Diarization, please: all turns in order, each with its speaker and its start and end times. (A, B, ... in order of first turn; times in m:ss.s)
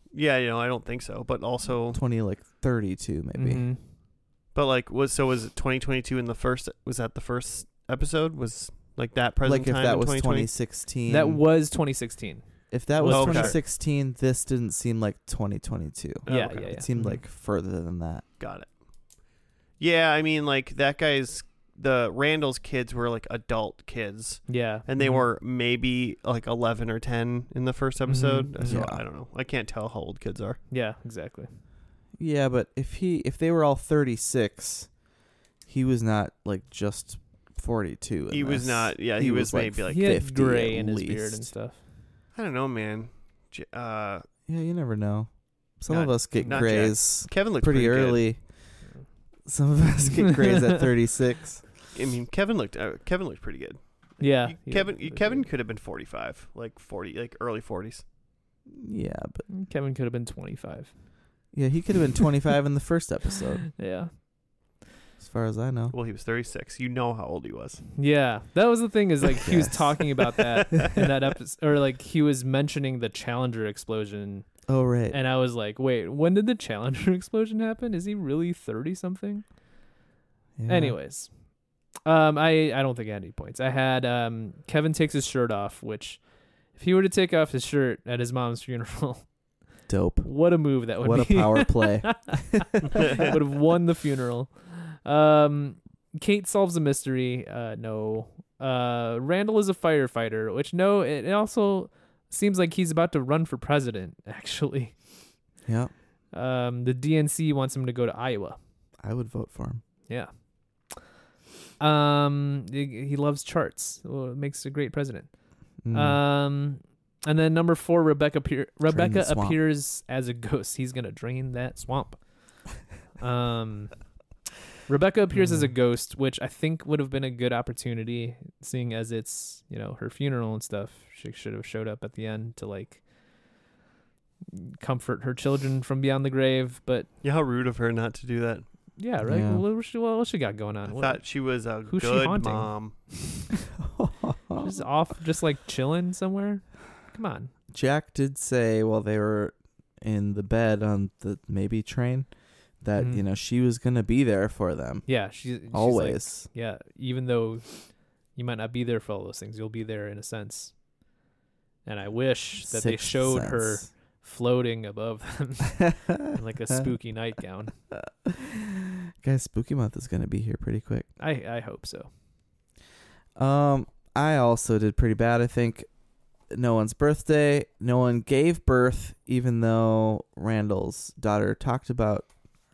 0:00.1-0:02.0 A
0:01.9-0:03.7 B
0:03.3-0:03.9 C
0:04.5-0:10.5 A
0:09.4-0:11.4 B
0:11.1-0:13.6 C
0:12.7-0:18.2 B
0:13.1-0:13.6 A
0:16.2-0:16.6 A
0:16.3-0:17.2 C
0:18.4-0:19.2 A
0:19.8-0:30.6 A
0:24.5-0:25.2 C
0:28.1-0:28.8 C
0:28.6-0:29.0 B
0:30.7-0:31.6 C
0:32.2-0:35.0 B
0:35.6-0:41.6 B
0:38.3-0:40.1 A
0:39.9-0:41.8 C
0:42.3-0:44.2 A
0:44.5-0:51.8 B
0:45.9-0:48.4 A
0:46.4-0:46.7 C
0:51.9-0:58.0 A
0:54.2-0:55.5 C
0:58.7-0:59.5 B
0:59.5-1:01.5 C
1:01.5-1:03.7 B
1:03.8-1:04.3 C
1:05.2-1:05.9 B
1:05.9-1:08.0 A
1:08.0-1:19.6 C
1:09.4-1:09.9 B
1:10.7-1:11.0 A
1:14.7-1:15.2 B
1:20.6-1:21.0 B
1:20.6-1:29.5 C
1:29.9-1:32.7 B
1:30.2-1:45.0 C
1:32.9-1:33.2 A
1:45.6-1:45.9 B
1:46.3-1:48.6 C
1:49.0-1:49.8 B
1:50.1-1:51.0 C
1:51.8-2:04.2 C
1:55.8-1:56.2 B
1:58.8-1:59.6 B
2:04.8-2:13.1 C
2:05.3-2:05.7 B
2:14.5-2:17.1 C
2:17.2-2:18.8 A
2:19.0-2:23.0 C
2:19.2-2:19.6 B
2:20.8-2:23.0 A
2:23.8-2:24.8 B
2:24.6-2:27.5 C
2:27.7-2:36.5 B
2:33.0-2:33.2 C
2:35.0-2:40.8 C
2:41.8-2:47.8 C
2:42.6-2:43.9 B
2:47.9-2:51.1 B
2:51.2-2:52.1 C
2:53.4-3:02.3 B